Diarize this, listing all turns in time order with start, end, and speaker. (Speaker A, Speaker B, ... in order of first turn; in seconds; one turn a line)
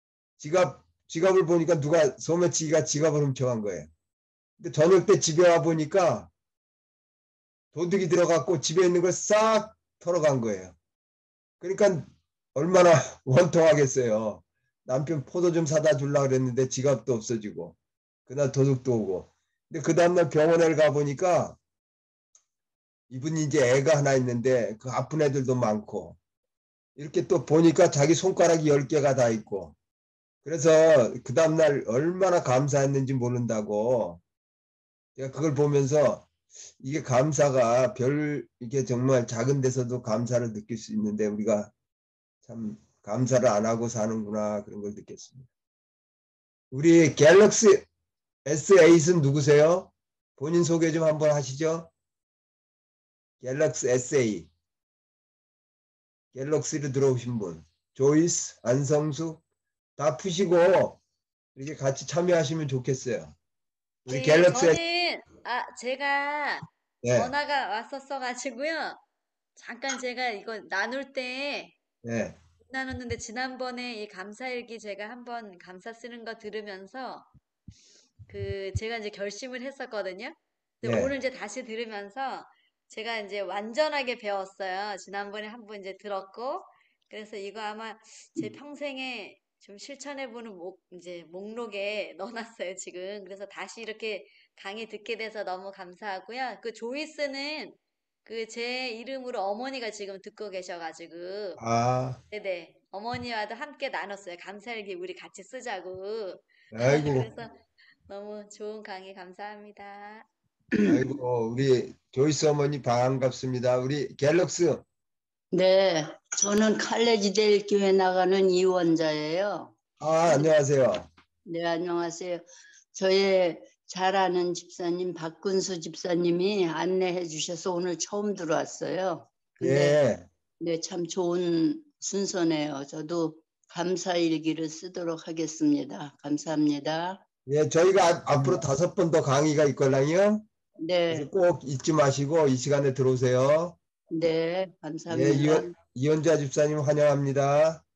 Speaker A: 0.4-3.9
Speaker A: 4.6-6.3
Speaker A: 7.7-10.8
Speaker A: 11.6-17.8
Speaker A: 18.3-21.6
Speaker A: 23.1-26.2
Speaker A: 27.0-29.8
Speaker A: 30.4-34.2
Speaker A: 35.2-36.3
Speaker A: 36.8-41.7
Speaker A: 42.4-45.5
Speaker A: 46.7-47.9
Speaker A: 48.5-51.9
Speaker A: 53.4-54.5
Speaker A: 56.3-59.4
Speaker A: 60.0-61.0
Speaker A: 61.6-63.4
Speaker A: 64.1-64.8
Speaker B: 64.1-69.0
Speaker A: 67.0-67.3
Speaker B: 69.6-71.8
Speaker A: 72.0-72.4
Speaker B: 72.7-77.3
Speaker B: 78.3-101.6
Speaker A: 80.8-81.1
Speaker A: 101.6-102.2
Speaker B: 102.3-110.3
Speaker A: 106.7-107.3
Speaker C: 110.7-111.0
Speaker A: 110.8-114.8
Speaker C: 115.5-119.8
Speaker A: 120.0-121.1
Speaker C: 121.5-130.0
Speaker A: 129.6-130.3
Speaker C: 130.6-137.2
Speaker A: 137.5-140.5
Speaker C: 140.8-141.3
Speaker A: 141.1-143.8
Speaker C: 144.1-145.8
Speaker A: 145.1-147.8